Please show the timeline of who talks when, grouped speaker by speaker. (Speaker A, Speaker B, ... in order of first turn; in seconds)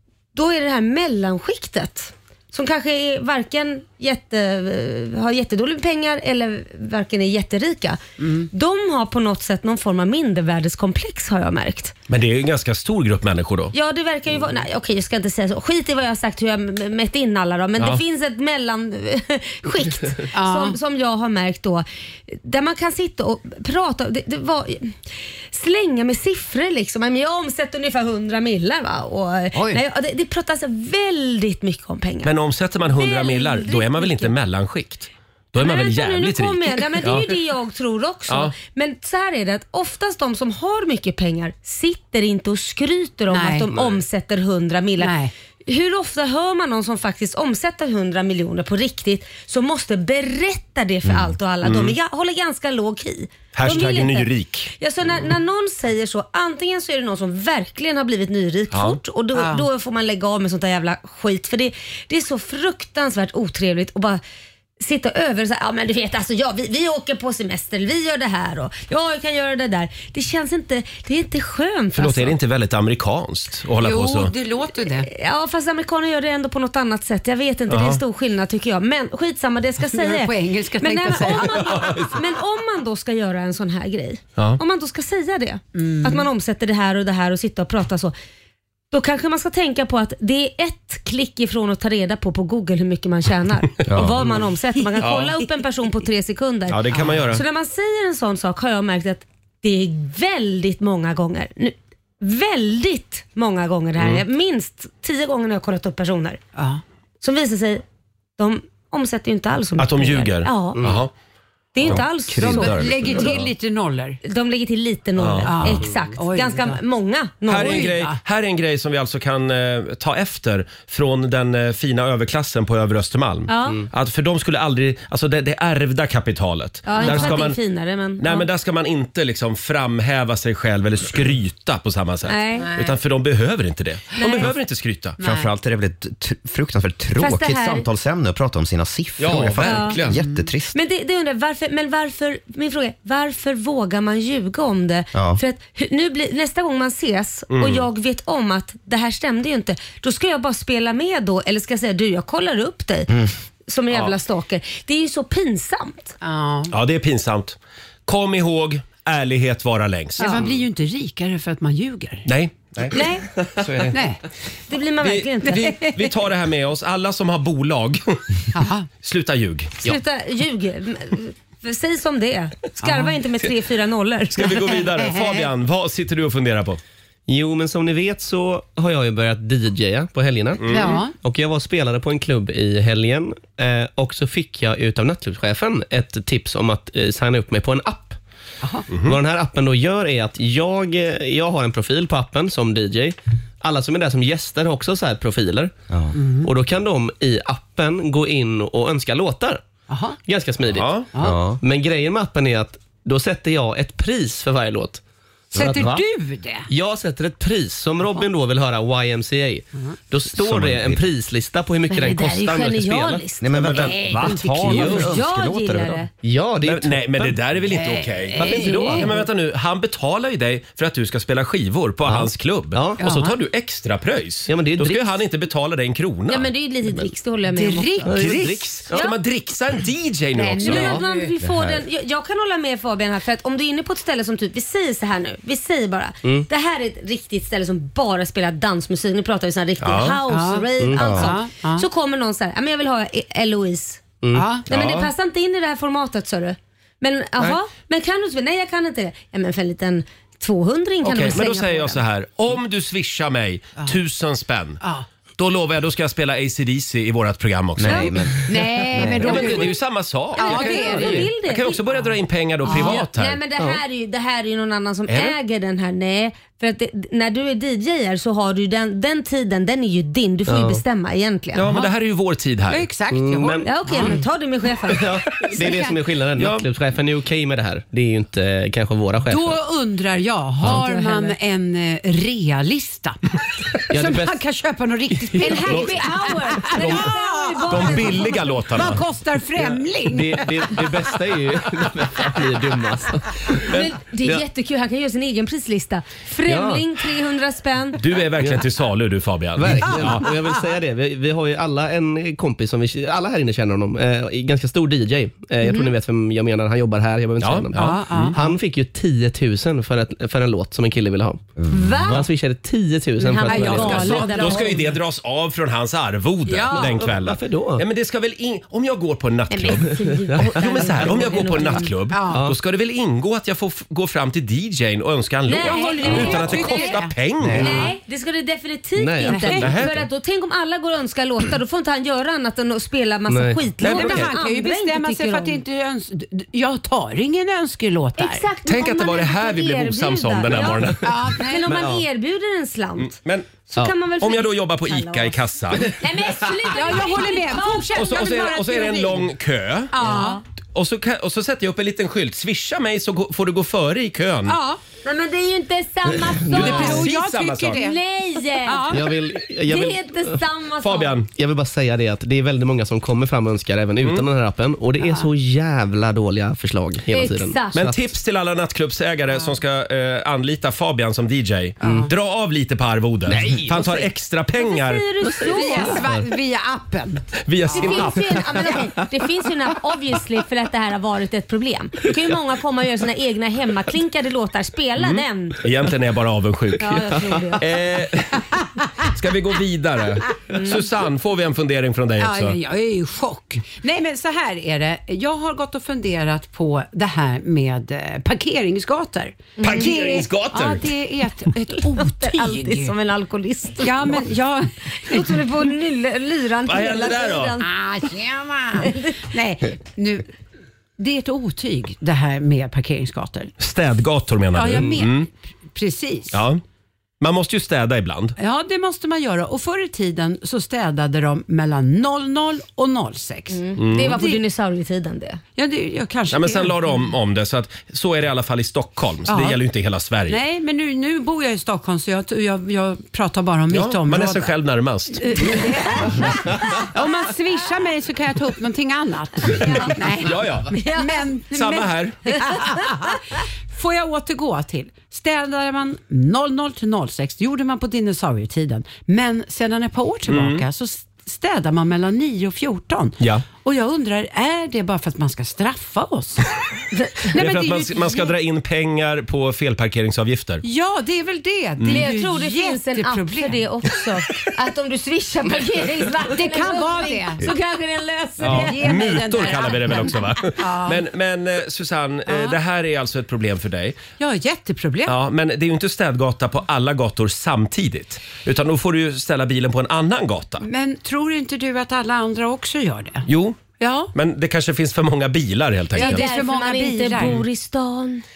Speaker A: 0.3-11.9, 13.7-25.0, 25.5-32.3, 32.9-34.3, 35.6-45.2, 45.7-64.2, 64.8-72.3, 75.0-88.1, 88.9-106.4, 107.2-107.8, 108.4-110.8, 111.7-113.4, 114.2-117.9, 123.5-123.8, 126.9-128.5, 132.3-132.7, 134.2-134.5, 137.2-137.9, 139.6-140.0, 140.7-153.1, 153.7-156.2, 162.9-163.2, 164.7-165.7, 169.8-174.6, 211.9-213.5, 214.7-216.1, 218.6-219.1, 226.3-228.1, 230.6-244.0, 244.7-252.0, 260.4-261.8, 262.7-271.7, 273.6-275.1, 280.7-281.4, 285.4-288.4, 293.7-298.0, 305.6-305.9, 311.7-312.3, 313.2-314.8, 319.5-321.9, 325.5-327.0, 327.6-335.6, 338.2-343.1, 343.7-349.2, 350.0-350.4, 355.0-357.1, 357.8-359.0, 359.6-361.1, 367.1-367.8, 374.6-376.0, 377.7-385.6, 386.8-387.7, 390.6-390.8, 399.6-399.9, 402.0-404.3, 405.1-407.7, 423.5-425.4, 439.6-439.9, 440.7-441.2, 456.9-457.3, 461.9-470.2, 486.0-488.2
Speaker B: 8.2-8.5, 20.3-20.8, 43.3-43.7, 45.0-45.3, 59.3-59.7, 73.8-75.1, 79.9-82.0, 85.8-86.3, 96.9-97.3, 106.5-106.8, 112.4-114.2, 115.4-116.8, 117.5-118.2, 127.0-127.4, 132.6-133.0, 135.2-135.5, 140.1-140.5, 156.2-156.7, 160.2-162.3, 163.9-164.2, 168.5-168.9, 172.8-173.2, 174.7-175.5, 180.7-181.2, 188.6-188.9, 196.1-196.5, 199.9-200.2, 201.1-201.4, 205.5-206.7, 213.9-214.8, 217.7-219.1, 223.0-223.4, 227.5-228.2, 230.3-231.3, 240.3-241.9, 244.3-244.6, 254.8-255.1, 258.5-259.8, 260.4-261.3, 262.6-263.1, 271.7-271.9, 272.7-274.2, 275.5-276.0, 279.3-283.2, 283.9-291.1, 307.7-308.6, 313.4-314.9, 316.5-317.1, 322.1-322.4, 325.5-327.9, 329.3-329.8, 333.8-338.5, 341.0-341.8, 346.7-349.1, 349.9-350.4, 354.5-354.8, 356.5-358.0, 358.6-359.1, 365.0-365.3, 371.8-372.1, 375.5-378.1, 392.2-402.9, 403.8-405.5, 407.6-410.3, 411.0-413.5, 414.5-416.4, 418.4-423.6, 425.6-427.1, 429.3-429.6, 430.3-434.5, 435.2-456.4, 457.3-458.4, 460.6-463.7, 466.2-467.5, 468.5-471.0, 474.2-475.2, 480.6-483.3, 483.8-484.1, 485.9-487.4
Speaker C: 12.1-13.7, 32.2-37.3, 38.3-38.5, 51.6-52.0, 53.5-54.7, 58.7-59.0, 72.0-74.3, 77.7-78.0, 81.7-82.1, 95.0-95.4, 96.7-97.4, 104.0-104.2, 109.8-111.1, 115.2-115.8, 117.5-127.6, 128.2-135.2, 139.2-140.2, 147.5-147.9, 156.7-160.5, 162.3-163.0, 163.6-164.0, 165.0-168.2, 169.0-169.8, 174.3-176.8, 180.6-181.0, 188.9-189.2, 200.7-201.1, 213.7-215.0, 216.6-226.5, 228.1-231.0, 239.8-240.2, 244.7-245.1, 251.0-254.8, 255.4-258.2, 259.0-263.4, 265.1-265.4, 271.5-272.9, 276.4-276.7, 287.7-289.1, 298.0-300.3, 307.4-308.4, 314.2-327.8, 329.5-329.9, 333.8-334.3, 338.7-341.1, 343.0-343.6, 344.2-345.9, 347.9-350.2, 350.8-354.6, 356.5-357.8, 360.8-361.3, 364.0-364.3, 367.7-375.1, 377.4-378.4, 385.0-388.4, 389.1-392.6, 399.6-400.9, 406.7-407.6, 413.6-415.3, 416.3-416.6, 417.2-418.4, 423.8-424.2, 426.3-430.4, 433.7-435.7, 440.2-440.8, 441.5-442.2, 450.3-450.6, 457.3-460.6, 461.8-462.1, 468.4-474.0, 475.1-480.7, 483.3-483.6, 484.1-486.3
Speaker D: 29.6-29.8, 93.9-94.2, 111.8-113.4, 135.2-140.8, 145.1-145.4, 195.9-196.2, 201.2-201.6, 205.6-205.9, 210.3-211.0, 213.4-216.0, 231.4-231.8, 241.0-241.3, 257.8-258.4, 258.9-259.5, 311.6-312.1
Speaker E: 110.8-111.0, 177.3-188.2, 189.0-195.7, 196.4-199.7, 200.2-200.9, 201.5-205.0, 205.6-206.0, 206.7-215.2, 216.2-217.4, 218.4-219.1, 222.1-223.0, 224.5-225.1, 228.1-229.0, 240.8-241.1, 244.2-244.5, 270.5-270.8, 273.1-274.1, 274.9-279.6, 283.9-284.4, 285.2-285.9, 289.6-294.4, 296.4-296.9, 298.4-298.7, 299.6-311.4, 312.0-314.4, 316.7-317.8, 320.2-321.3, 329.0-329.9, 333.3-333.7, 341.7-342.0, 358.9-360.4, 361.4-368.1, 373.3-374.1, 375.2-376.3